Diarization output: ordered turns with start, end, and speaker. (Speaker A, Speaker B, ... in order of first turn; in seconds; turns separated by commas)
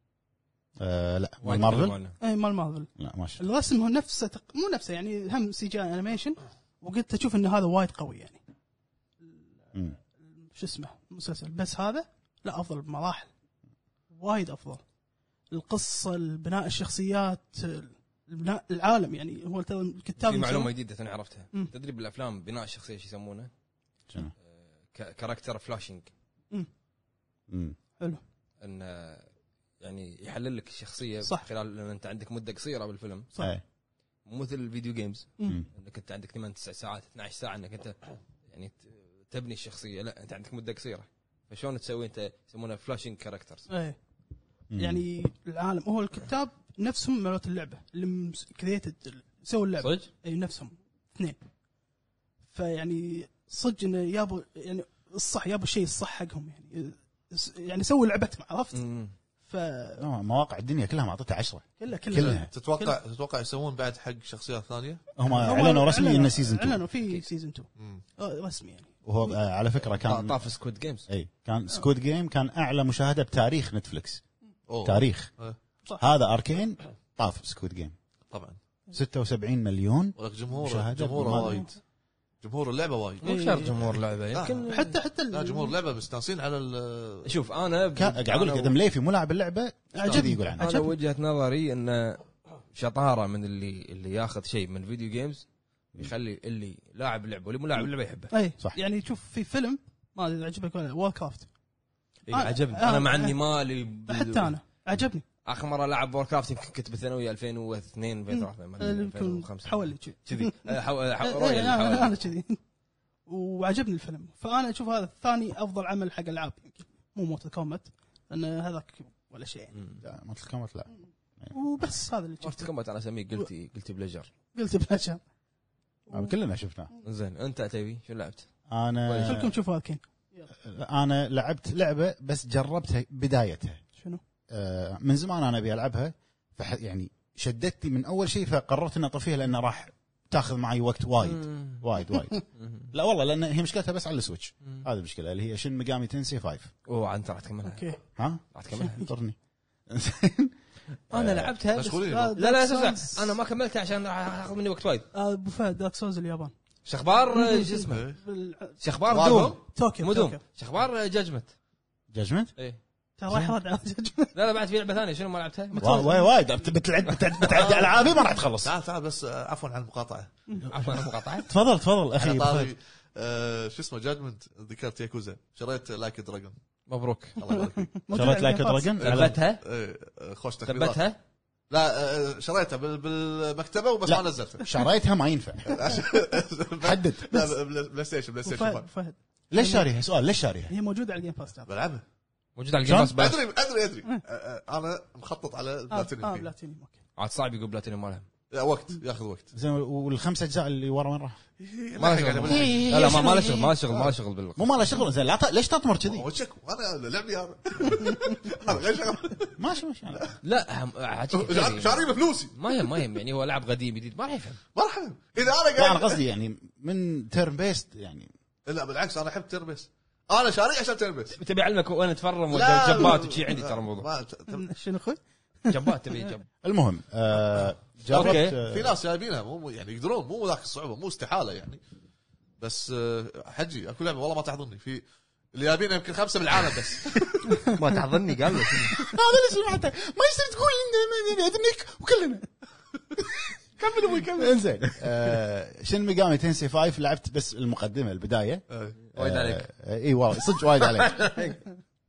Speaker A: 0.8-2.0, Speaker B: 1.4-2.2, Speaker C: 2.2-8.4, Speaker A: 3.0-3.4, Speaker C: 10.4-13.3, Speaker C: 14.1-14.8, Speaker C: 15.5-20.7, Speaker B: 20.2-23.5, Speaker B: 24.9-26.1, Speaker A: 27.5-27.8, Speaker B: 28.6-29.3, Speaker B: 29.8-33.3, Speaker B: 34.3-38.0, Speaker B: 38.5-43.7, Speaker C: 43.7-44.0, Speaker A: 44.7-45.0, Speaker C: 44.8-51.4, Speaker B: 49.8-50.1, Speaker C: 52.5-58.8, Speaker B: 58.7-59.1, Speaker C: 59.4-60.0, Speaker A: 60.0-62.5, Speaker C: 61.8-63.0, Speaker D: 62.1-65.1, Speaker A: 65.2-66.8, Speaker C: 65.3-69.3, Speaker D: 67.8-68.0, Speaker A: 69.0-70.4, Speaker B: 70.0-71.0, Speaker A: 71.1-74.2, Speaker D: 74.7-75.6, Speaker A: 74.8-75.3, Speaker A: 76.0-77.9, Speaker D: 78.3-78.6, Speaker A: 78.9-81.6, Speaker D: 80.2-81.8, Speaker C: 81.3-81.7, Speaker D: 82.4-84.7, Speaker B: 83.2-84.9, Speaker C: 83.2-83.8, Speaker C: 84.7-85.8, Speaker D: 85.3-87.3, Speaker B: 87.2-88.7, Speaker A: 88.0-90.7, Speaker C: 89.9-90.9, Speaker B: 90.6-98.3, Speaker C: 98.3-101.5, Speaker B: 102.3-104.5, Speaker C: 102.3-103.4, Speaker C: 104.1-105.2, Speaker B: 105.5-112.2, Speaker C: 108.3-112.6, Speaker C: 113.3-119.7, Speaker B: 119.7-120.0, Speaker A: 120.0-120.9, Speaker C: 121.5-122.7, Speaker B: 122.4-124.3, Speaker C: 124.5-125.2, Speaker C: 126.1-126.3, Speaker A: 126.1-126.9, Speaker B: 127.0-128.5, Speaker A: 128.7-129.5, Speaker B: 129.1-129.5, Speaker C: 129.2-130.5, Speaker A: 130.6-133.8, Speaker A: 134.5-146.7, Speaker B: 141.2-141.8, Speaker B: 142.6-142.9, Speaker B: 146.9-147.8, Speaker C: 147.7-148.0, Speaker A: 148.2-149.4, Speaker B: 148.5-149.0, Speaker A: 149.9-150.5, Speaker A: 151.1-151.5, Speaker B: 151.1-155.1, Speaker D: 151.7-152.4, Speaker C: 152.1-153.4, Speaker C: 155.1-156.5, Speaker B: 156.9-158.1, Speaker C: 157.3-158.8, Speaker D: 157.9-158.2, Speaker B: 158.8-161.5, Speaker D: 159.1-159.6, Speaker C: 159.7-160.4, Speaker A: 162.1-162.5, Speaker C: 163.2-164.3, Speaker A: 163.3-163.6, Speaker B: 164.3-166.1, Speaker C: 165.7-166.3, Speaker A: 165.8-168.7, Speaker B: 167.1-167.7, Speaker D: 167.5-170.3, Speaker B: 170.7-171.5, Speaker A: 171.5-172.7, Speaker D: 172.2-176.6, Speaker B: 176.9-177.4, Speaker D: 177.4-178.0, Speaker C: 177.5-178.9, Speaker A: 178.1-179.4, Speaker B: 179.0-179.6, Speaker D: 179.0-181.0, Speaker B: 180.7-181.2, Speaker D: 181.7-184.8, Speaker A: 184.1-185.9, Speaker D: 185.7-188.9, Speaker A: 186.8-187.5, Speaker C: 188.4-189.9, Speaker A: 189.5-190.7, Speaker C: 190.7-191.7, Speaker D: 191.7-192.0, Speaker B: 192.6-193.4, Speaker A: 192.8-193.2, Speaker D: 193.1-196.5, Speaker C: 195.9-197.0, Speaker B: 197.2-198.3, Speaker D: 198.5-199.5, Speaker A: 199.5-201.4, Speaker D: 201.6-203.1, Speaker B: 202.0-205.0, Speaker A: 202.4-203.8, Speaker A: 204.6-206.3, Speaker D: 206.1-209.6, Speaker A: 209.6-210.3, Speaker B: 210.4-214.6, Speaker D: 211.3-212.8, Speaker D: 214.8-216.2, Speaker A: 215.8-218.3, Speaker D: 218.7-221.4, Speaker B: 221.4-224.1, Speaker D: 222.5-224.7, Speaker C: 224.5-225.9, Speaker B: 225.7-226.5, Speaker A: 226.6-229.0, Speaker D: 228.1-231.8, Speaker B: 228.1-228.6, Speaker D: 232.6-237.6, Speaker B: 237.7-239.0, Speaker A: 238.9-242.5, Speaker A: 243.2-243.6, Speaker B: 243.9-245.0, Speaker A: 244.3-248.6, Speaker D: 248.7-249.0, Speaker B: 249.1-249.7, Speaker A: 249.2-251.3, Speaker B: 250.6-251.6